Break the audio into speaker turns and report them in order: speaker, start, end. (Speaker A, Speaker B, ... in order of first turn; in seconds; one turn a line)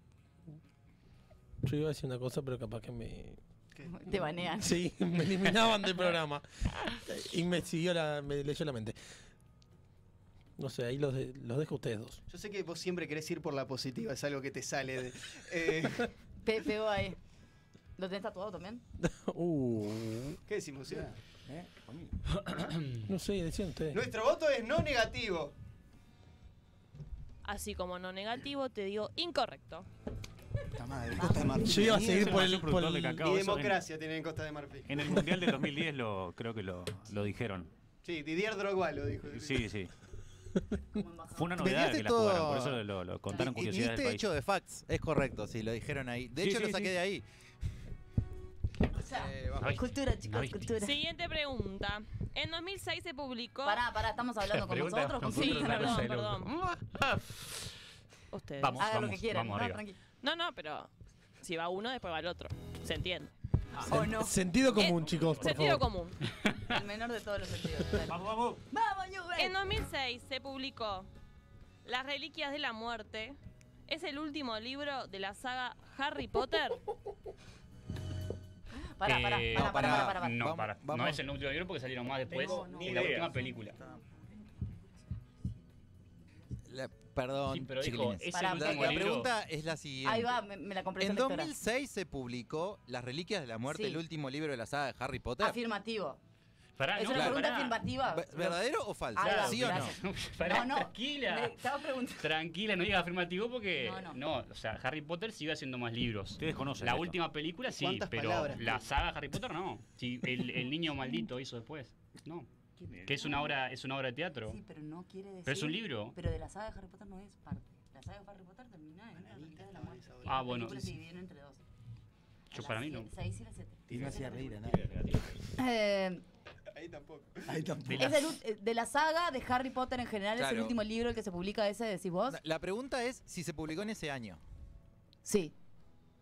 Speaker A: 1.6-3.4
Speaker B: 3.9-4.8
Speaker A: 4.6-6.5
Speaker A: 7.1-9.0
Speaker A: 10.6-12.2
Speaker C: 12.3-16.1
Speaker B: 16.4-17.2
Speaker B: 18.0-18.8
Speaker A: 19.0-20.4
Speaker C: 20.5-21.1
Speaker D: 21.1-22.2
Speaker E: 22.4-23.1
Speaker A: 23.1-24.0
Speaker C: 23.9-25.5
Speaker F: 27.4-29.9
Speaker D: 30.8-32.5
Speaker A: 31.6-33.2
Speaker G: 31.9-33.8
Speaker C: 33.2-35.1
Speaker G: 34.9-37.7
Speaker C: 38.0-39.7
Speaker G: 39.3-39.9
Speaker B: 40.9-41.6
Speaker G: 41.3-44.3
Speaker H: 41.6-47.2
Speaker B: 43.3-43.5
Speaker G: 46.4-47.0
Speaker B: 48.9-51.0
Speaker H: 49.0-49.8
Speaker E: 49.6-50.7
Speaker F: 50.8-53.8
Speaker B: 53.6-56.1
Speaker E: 54.5-57.7
Speaker F: 55.2-56.5
Speaker F: 58.3-58.9
Speaker E: 58.6-59.8
Speaker B: 58.8-60.0
Speaker F: 60.2-63.3
Speaker G: 63.8-64.1
Speaker B: 63.9-64.5
Speaker A: 63.9-65.9
Speaker F: 64.8-66.2
Speaker G: 65.0-65.7
Speaker E: 66.5-66.8
Speaker B: 66.7-69.6
Speaker G: 68.0-68.6
Speaker F: 69.4-71.1
Speaker F: 71.8-76.8
Speaker B: 79.0-80.4
Speaker E: 79.0-83.8
Speaker H: 79.5-81.3
Speaker G: 82.3-83.4
Speaker B: 82.3-84.0
Speaker H: 86.7-90.4
Speaker E: 87.5-89.3
Speaker B: 88.3-89.2
Speaker B: 90.0-91.5
Speaker H: 91.0-95.6
Speaker B: 93.7-94.0
Speaker B: 95.4-96.2
Speaker E: 96.8-97.8
Speaker B: 97.0-98.6
Speaker H: 97.0-100.0
Speaker B: 99.1-102.3
Speaker E: 99.2-101.6
Speaker E: 102.2-112.5
Speaker B: 103.8-104.2
Speaker G: 106.4-107.2
Speaker C: 107.8-108.9
Speaker G: 112.8-113.5
Speaker E: 113.0-114.6
Speaker B: 113.2-113.4
Speaker B: 114.5-121.6
Speaker E: 115.5-116.2
Speaker C: 119.1-120.7
Speaker E: 120.2-121.0
Speaker E: 122.5-123.1
Speaker B: 122.5-124.8
Speaker D: 123.9-124.9
Speaker G: 123.9-124.2
Speaker G: 124.7-125.3
Speaker B: 125.6-126.2
Speaker C: 126.7-127.5
Speaker D: 127.5-128.2
Speaker E: 127.9-128.2
Speaker B: 127.9-132.4
Speaker H: 130.4-130.8
Speaker H: 132.3-134.4
Speaker B: 135.2-135.5